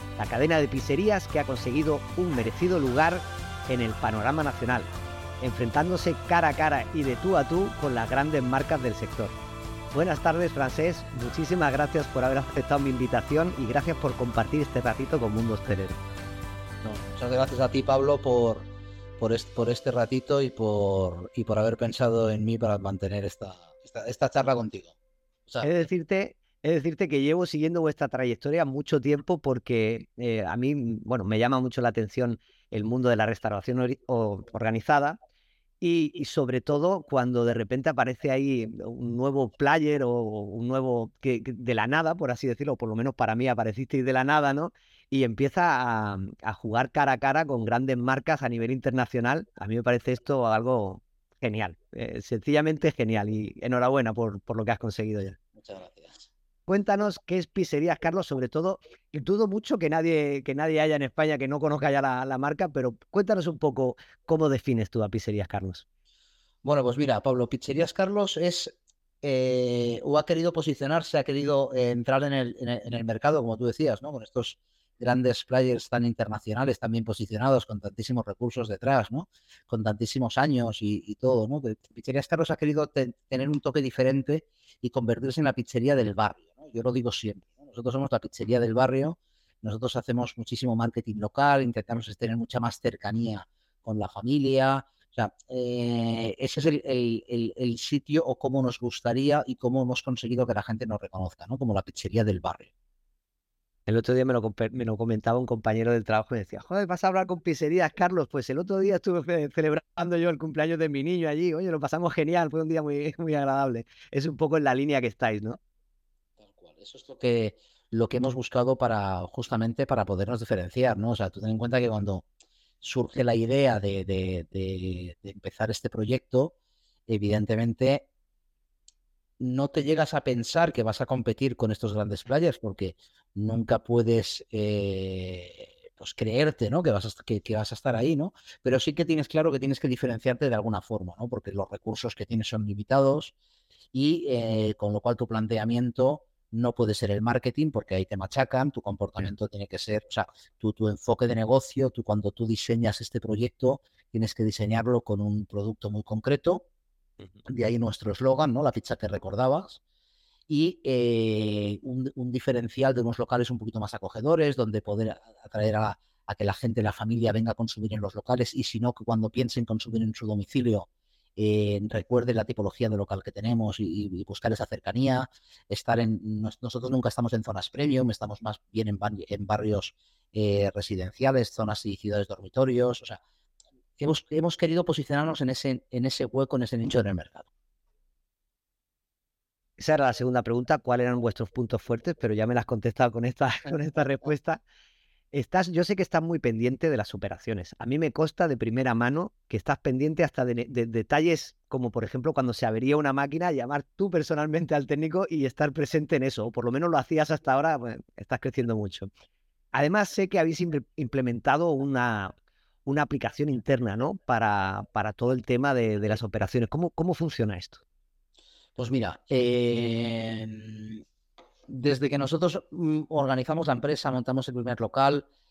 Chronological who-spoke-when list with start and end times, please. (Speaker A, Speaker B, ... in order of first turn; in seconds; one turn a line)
Speaker A: 0.2-4.9
Speaker A: 5.4-9.3
Speaker A: 9.9-16.0
Speaker B: 16.8-24.9
Speaker A: 25.6-35.2
Speaker A: 35.8-55.4
Speaker B: 55.5-56.3
Speaker A: 56.7-65.8
Speaker B: 66.6-102.7
Speaker A: 103.9-115.6
Speaker B: 116.4-122.2
Speaker B: 122.8-126.5
Speaker B: 127.1-128.1
Speaker B: 129.4-143.3
Speaker B: 143.9-156.6
Speaker B: 157.4-159.8
Speaker B: 160.5-183.2
Speaker B: 184.0-187.5
Speaker A: 189.8-194.6
Speaker A: 195.3-209.1
Speaker A: 209.7-212.3
Speaker A: 212.8-217.8
Speaker B: 218.8-221.0
Speaker B: 221.7-225.2